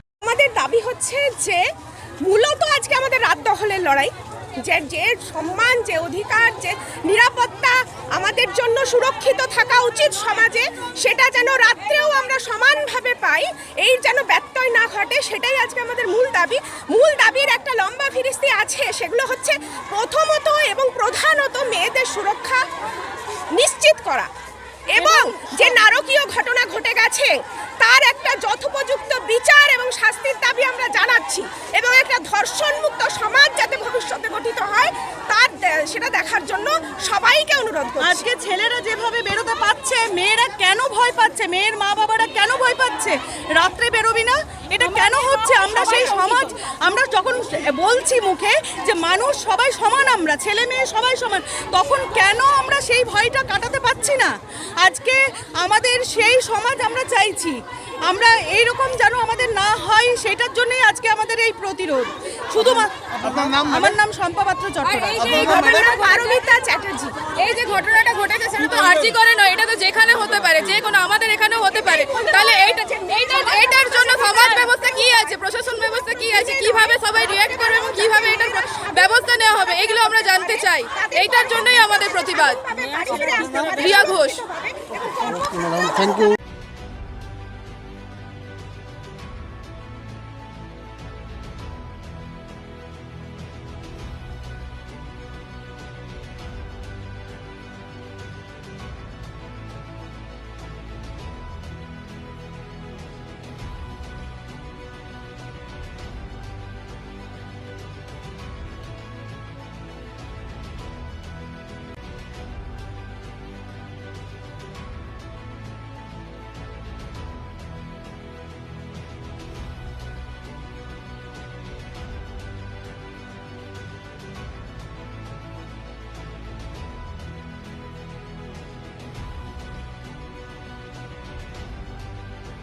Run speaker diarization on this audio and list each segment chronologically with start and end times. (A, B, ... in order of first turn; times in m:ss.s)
0:00.2-0:01.6 A
0:02.2-0:04.1 A
0:04.6-0:22.6 A
0:23.5-0:24.3 A
0:24.9-0:38.2 A
0:38.0-1:05.5 B
0:45.4-0:46.5 A
1:05.0-1:07.9 A
1:05.5-1:05.9 C
1:07.5-1:22.6 C
1:08.6-1:09.1 A
1:11.8-1:26.3 A
1:23.2-1:24.4 C